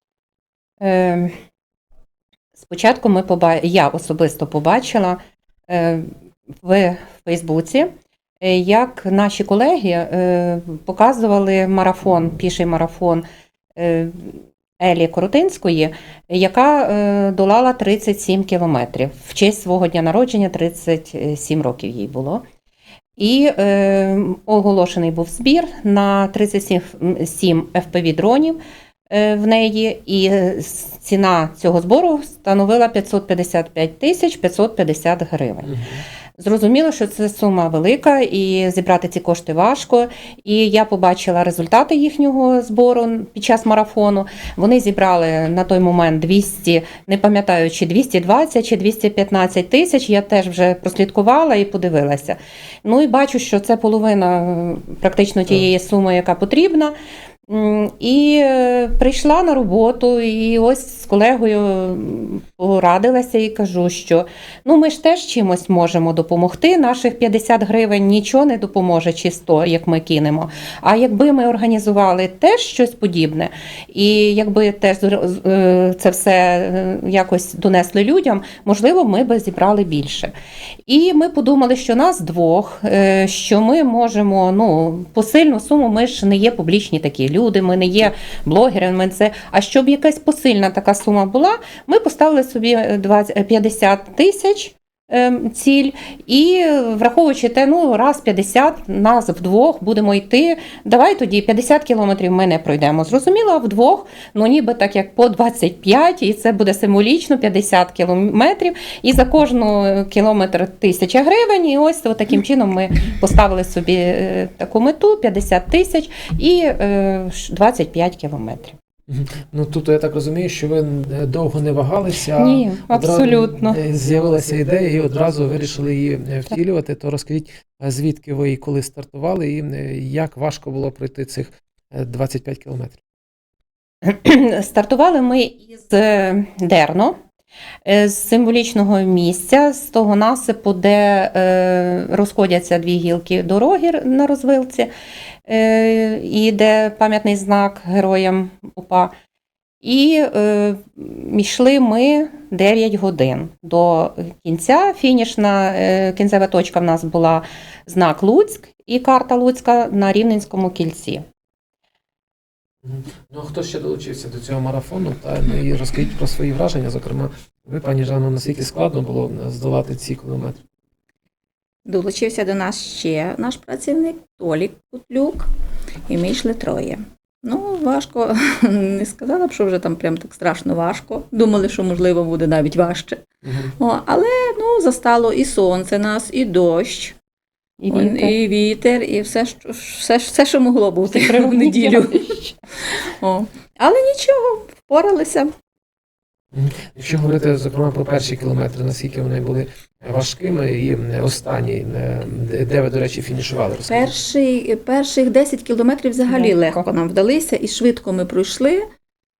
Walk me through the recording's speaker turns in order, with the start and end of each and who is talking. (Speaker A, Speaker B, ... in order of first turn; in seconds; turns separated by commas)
Speaker A: 0.8-1.3, Speaker A: 2.6-6.1, Speaker A: 6.6-7.9, Speaker A: 8.4-22.4, Speaker A: 23.2-28.6, Speaker A: 29.1-35.7, Speaker B: 35.6-36.0, Speaker A: 36.4-56.9, Speaker A: 57.5-80.3, Speaker A: 80.8-118.8, Speaker B: 119.1-133.0, Speaker A: 122.3-123.8, Speaker A: 134.0-137.2, Speaker A: 137.8-144.9, Speaker A: 145.4-149.1, Speaker A: 149.8-161.2, Speaker B: 162.8-170.6, Speaker C: 171.8-175.5, Speaker C: 176.1-183.2, Speaker B: 183.4-183.7, Speaker C: 183.8-187.2, Speaker A: 187.8-188.3, Speaker C: 187.9-192.3, Speaker A: 191.1-192.6, Speaker C: 192.9-195.5, Speaker B: 196.5-204.1, Speaker C: 203.9-208.9, Speaker A: 206.3-206.8